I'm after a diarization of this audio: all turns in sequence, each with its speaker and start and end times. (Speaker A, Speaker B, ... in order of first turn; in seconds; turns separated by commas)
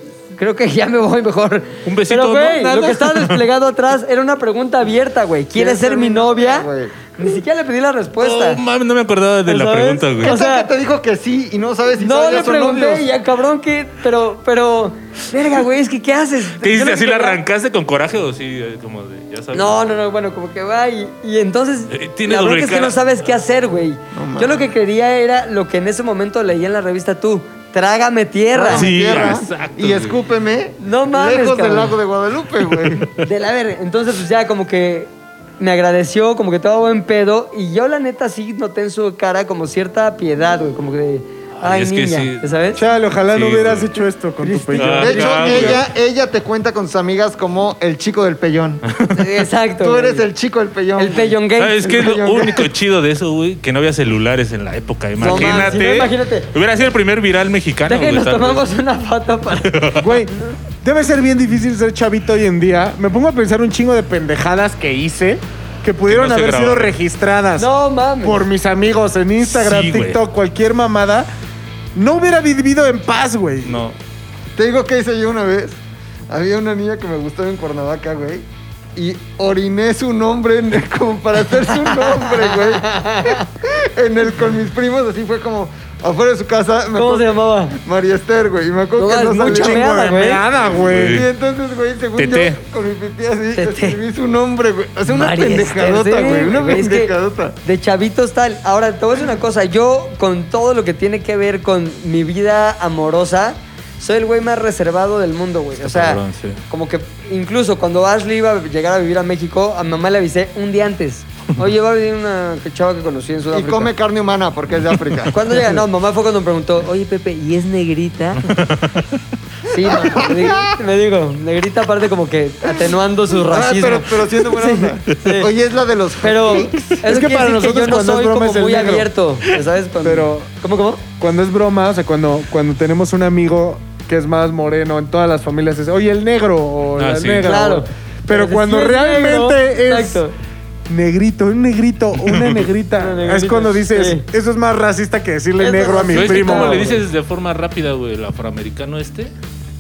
Speaker A: 0.3-8.6, Speaker B: 1.8-3.4, Speaker C: 5.5-7.1, Speaker B: 8.2-10.4, Speaker A: 9.4-10.7, Speaker C: 10.2-13.0, Speaker A: 12.0-17.4, Speaker B: 16.6-19.8, Speaker A: 19.5-28.9, Speaker B: 21.9-23.0, Speaker C: 24.1-24.7, Speaker C: 28.5-33.1, Speaker B: 28.7-30.2, Speaker A: 30.8-32.0, Speaker A: 33.1-42.8, Speaker B: 41.6-42.4, Speaker D: 42.8-45.6, Speaker B: 43.3-43.9, Speaker A: 44.4-45.8, Speaker B: 44.8-45.8, Speaker C: 45.0-48.8, Speaker B: 48.8-49.2, Speaker A: 49.1-50.2, Speaker C: 49.8-52.7, Speaker A: 50.9-51.8, Speaker B: 51.6-58.6, Speaker A: 55.2-56.5, Speaker A: 57.9-60.5, Speaker B: 59.6-60.1, Speaker D: 60.0-67.7, Speaker B: 66.1-66.9, Speaker A: 67.6-68.4, Speaker D: 68.2-71.3, Speaker B: 69.5-70.2, Speaker D: 71.9-73.8, Speaker B: 73.6-74.0, Speaker C: 74.5-75.8, Speaker C: 76.3-78.4, Speaker C: 79.0-89.9, Speaker A: 81.8-83.4, Speaker A: 86.9-87.8, Speaker A: 89.0-90.4, Speaker D: 89.4-91.2, Speaker C: 90.6-97.5, Speaker B: 90.8-91.2, Speaker B: 92.2-92.6, Speaker A: 93.5-94.0, Speaker A: 95.1-113.9, Speaker B: 105.8-106.6, Speaker C: 113.5-115.4, Speaker A: 115.3-118.6, Speaker B: 118.4-119.1, Speaker A: 119.7-125.5, Speaker C: 119.8-120.8, Speaker C: 123.3-127.0, Speaker A: 126.2-131.0, Speaker D: 127.0-129.1, Speaker D: 130.0-130.5, Speaker D: 131.2-140.2, Speaker B: 136.9-137.5, Speaker A: 137.4-140.3, Speaker D: 140.9-146.9, Speaker B: 142.2-142.6, Speaker A: 142.9-144.2, Speaker A: 145.6-147.0, Speaker B: 146.1-149.3